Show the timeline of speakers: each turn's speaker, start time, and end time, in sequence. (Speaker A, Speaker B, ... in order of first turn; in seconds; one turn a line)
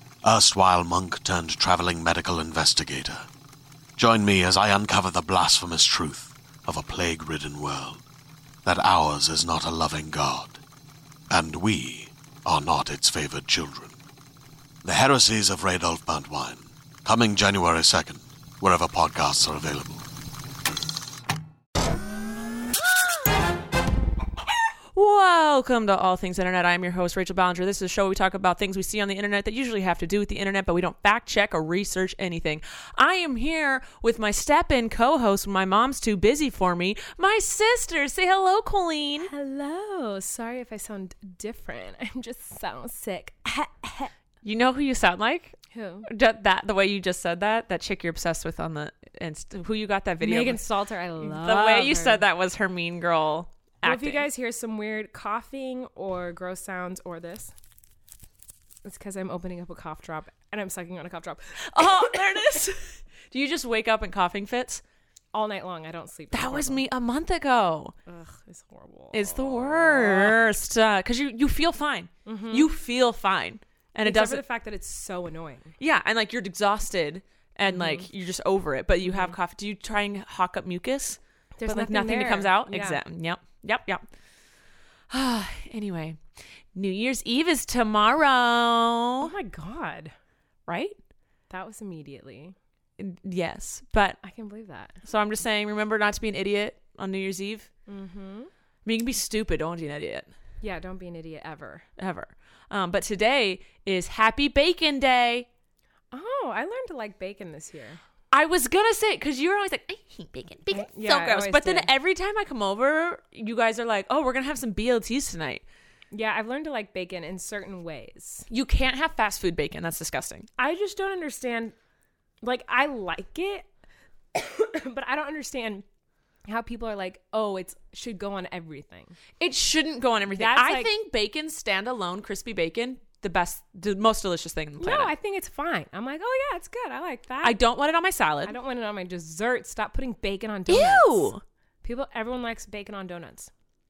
Speaker A: 0.2-3.3
Speaker A: 4.0-8.0
Speaker A: 8.6-10.6
Speaker A: 11.3-13.9
Speaker A: 14.8-20.0
Speaker B: 24.9-39.3
Speaker C: 39.2-44.1
Speaker B: 44.4-45.5
Speaker C: 45.7-46.1
Speaker B: 46.1-50.6
Speaker C: 50.2-52.2
Speaker B: 51.2-54.3
Speaker C: 53.8-57.5
Speaker C: 58.8-62.2
Speaker B: 61.7-64.8
Speaker C: 65.3-66.8
Speaker B: 66.3-67.9
Speaker C: 68.1-70.3
Speaker B: 69.1-74.4
Speaker C: 72.2-72.7
Speaker C: 74.0-75.7
Speaker B: 75.8-84.0
Speaker C: 77.7-78.1
Speaker C: 79.0-79.3
Speaker C: 81.6-83.0
Speaker B: 85.1-86.2
Speaker B: 86.7-89.3
Speaker C: 89.2-90.1
Speaker B: 90.7-90.9
Speaker C: 91.5-92.5
Speaker B: 93.0-94.2
Speaker C: 94.2-95.0
Speaker B: 95.0-97.7
Speaker C: 97.9-98.5
Speaker B: 98.8-100.3
Speaker C: 100.6-101.8
Speaker B: 102.0-105.5
Speaker C: 106.1-108.0
Speaker B: 108.3-115.6
Speaker C: 110.7-111.9
Speaker C: 116.1-118.5
Speaker B: 118.5-120.5
Speaker C: 120.6-121.7
Speaker C: 122.4-123.7
Speaker C: 124.3-125.8
Speaker C: 126.5-129.1
Speaker B: 129.4-135.1
Speaker C: 130.3-130.9
Speaker C: 134.8-137.6
Speaker B: 137.4-138.5
Speaker C: 138.4-141.3
Speaker B: 140.7-141.4
Speaker C: 141.8-143.5